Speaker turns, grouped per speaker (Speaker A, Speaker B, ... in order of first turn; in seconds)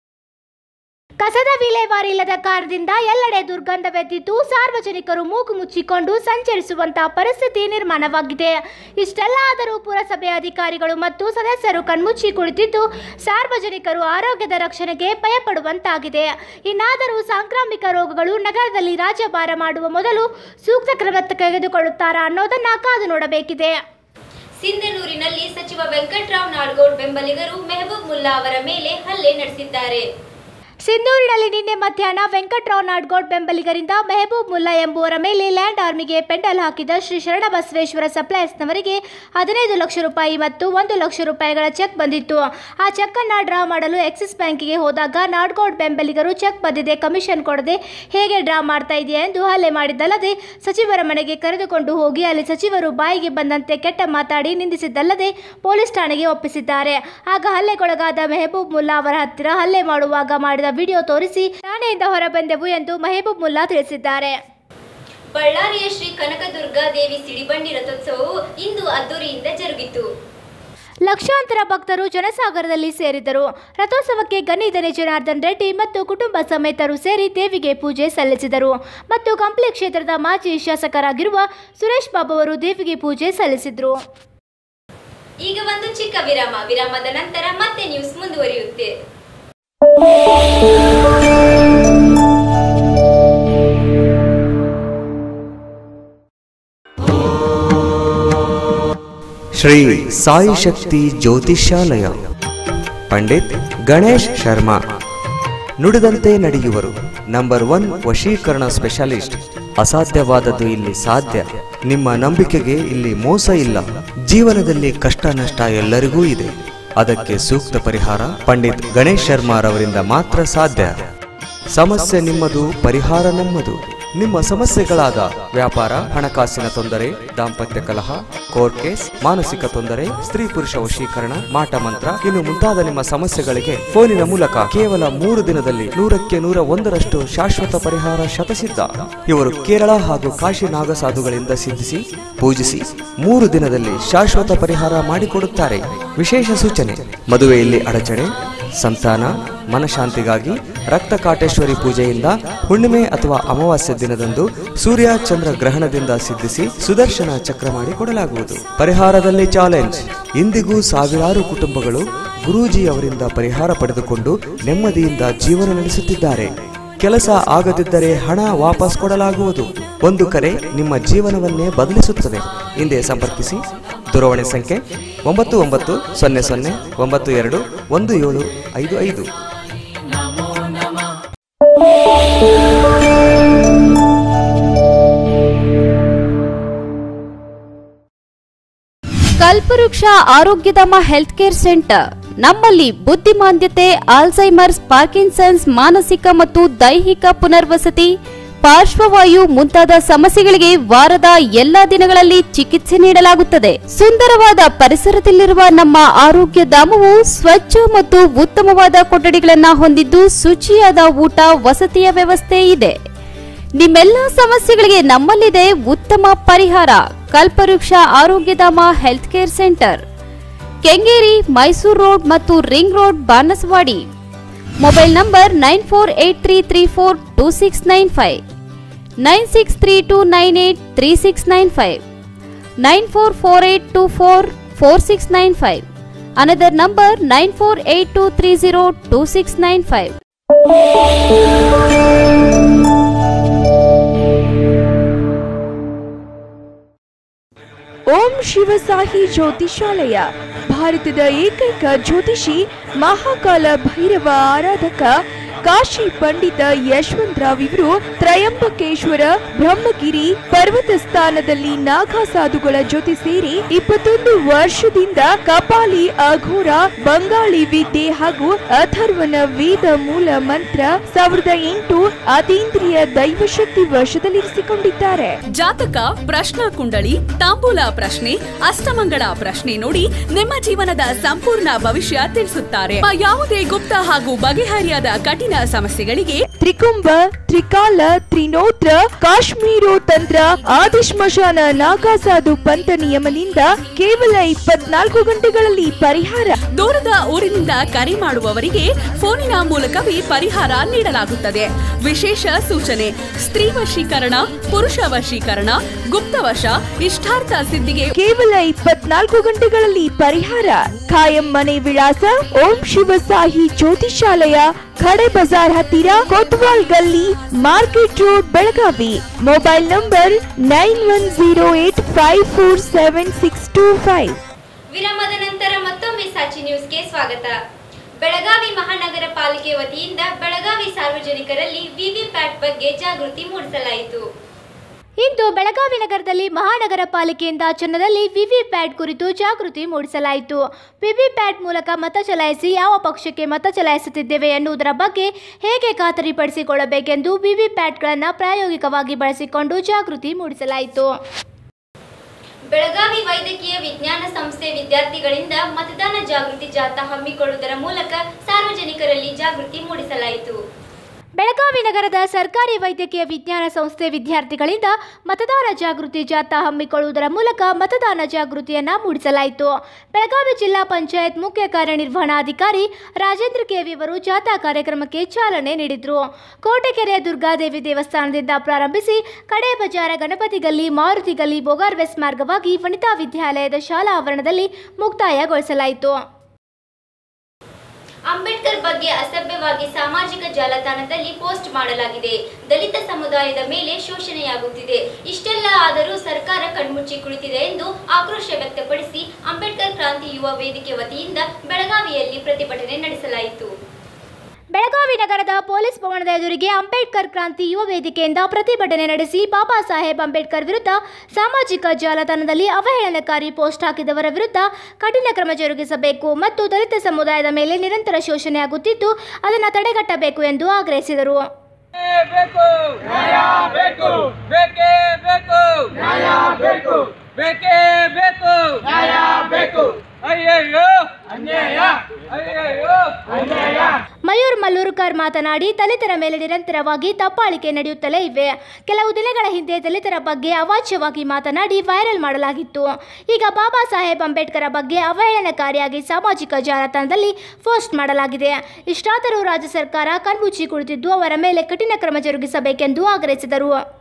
Speaker A: 1.2-23.8, 30.9-64.3, 71.0-84.0, 335.2-351.1, 361.4-386.2, 404.7-421.4, 434.3-453.8
Speaker B: 24.6-30.1, 65.3-70.1, 85.4-88.9, 324.9-327.6, 328.2-334.2, 352.7-360.6, 388.3-403.7
Speaker C: 99.6-102.2, 103.1-104.8, 105.8-121.0, 121.7-179.3
Speaker D: 189.4-213.0, 213.8-220.0, 220.8-224.1, 224.8-228.4, 229.2-232.0, 232.8-235.8, 236.4-240.1
Speaker E: 248.1-255.1, 255.6-275.4, 286.6-296.5, 308.1-324.4
Speaker F: 275.5-286.4, 296.7-308.1
Speaker G: 422.2-433.8